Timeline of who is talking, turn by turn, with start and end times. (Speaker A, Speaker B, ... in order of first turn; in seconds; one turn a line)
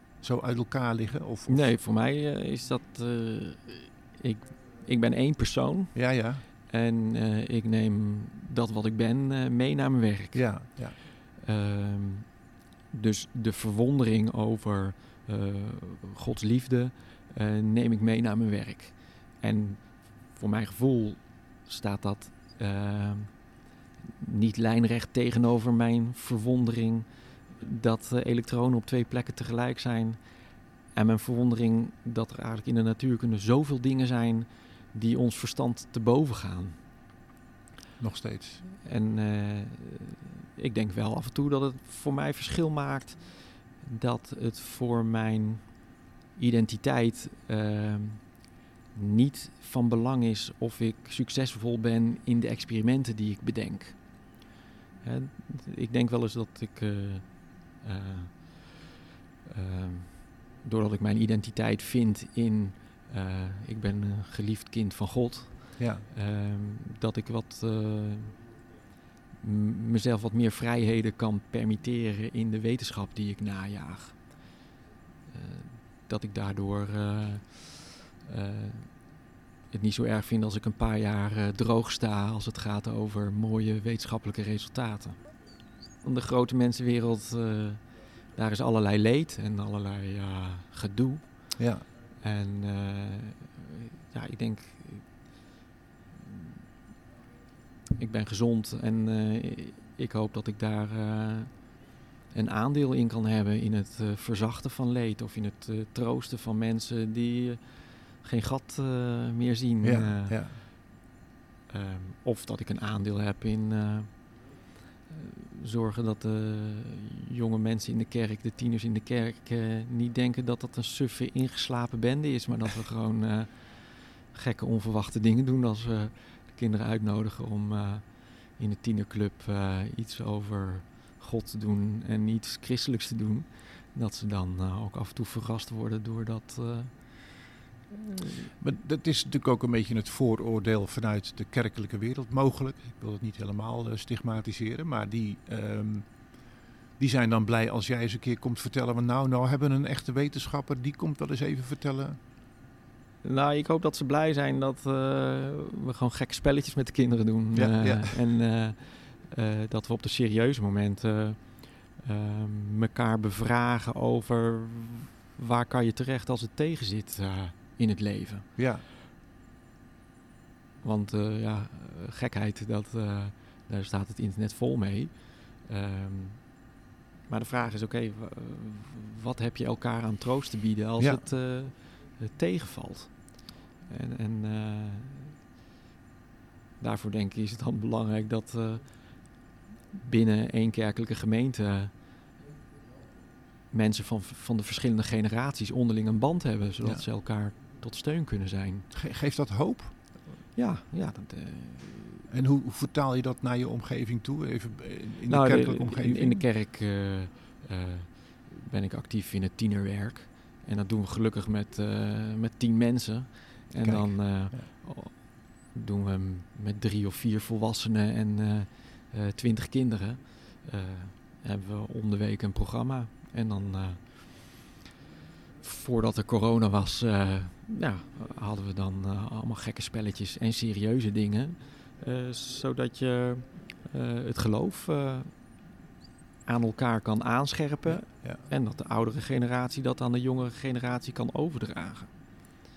Speaker A: 0.2-1.8
Speaker B: 1.5-36.8
Speaker A: 5.9-6.4
Speaker A: 10.3-11.0
Speaker A: 38.0-38.6
Speaker B: 38.8-54.4
Speaker B: 55.0-58.8
Speaker B: 59.5-68.5
Speaker A: 65.8-66.0
Speaker B: 69.4-74.6
Speaker B: 75.3-95.4
Speaker A: 91.6-91.8
Speaker B: 98.0-110.6
Speaker A: 109.8-110.6
Speaker B: 111.7-138.5
Speaker A: 138.6-152.2
Speaker B: 153.2-168.6
Speaker A: 157.6-158.2
Speaker A: 168.6-168.8
Speaker B: 170.8-176.7
Speaker B: 177.3-185.4
Speaker B: 186.8-192.0
Speaker B: 193.7-198.9
Speaker A: 198.9-200.2
Speaker B: 200.6-202.2
Speaker A: 202.3-206.5
Speaker B: 205.3-224.8
Speaker A: 213.8-214.7
Speaker B: 225.6-235.6
Speaker B: 236.4-242.2
Speaker A: 237.8-238.4